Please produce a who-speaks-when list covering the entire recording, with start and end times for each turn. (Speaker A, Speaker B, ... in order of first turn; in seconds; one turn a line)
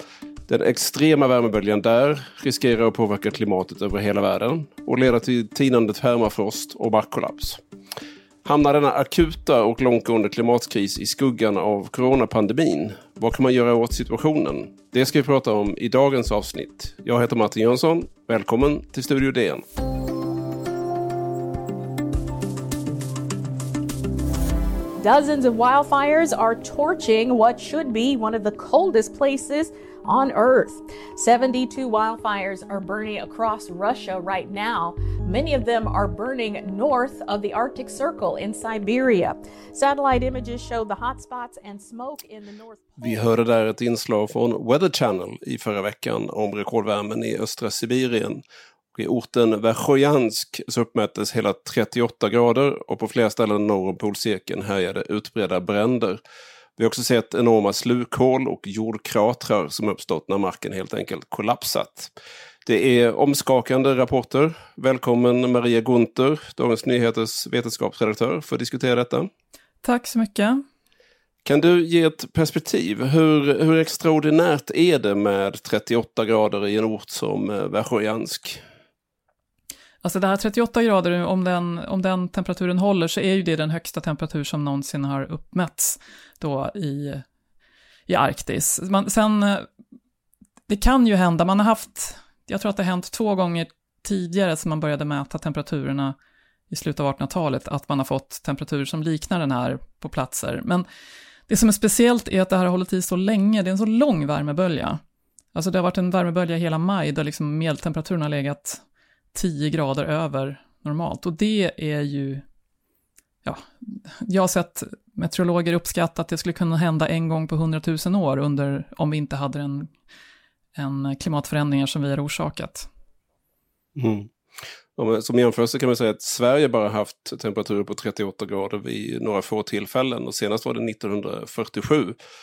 Speaker A: 0.5-7.6
Speaker A: 8.4-19.6
Speaker B: 25.0-43.2
Speaker A: 43.0-48.4
Speaker A: 48.9-56.2
Speaker A: 56.8-62.1
Speaker A: 62.6-69.3
Speaker C: 69.8-70.6
Speaker A: 71.4-78.6
Speaker C: 80.0-87.2
Speaker C: 88.1-89.7
Speaker C: 90.7-96.1
Speaker C: 96.7-100.8
Speaker C: 101.5-105.0
Speaker C: 105.5-108.8
Speaker C: 109.3-112.4
Speaker C: 113.4-119.9
Speaker C: 120.8-122.9
Speaker A: 124.0-124.3
Speaker A: 125.0-132.2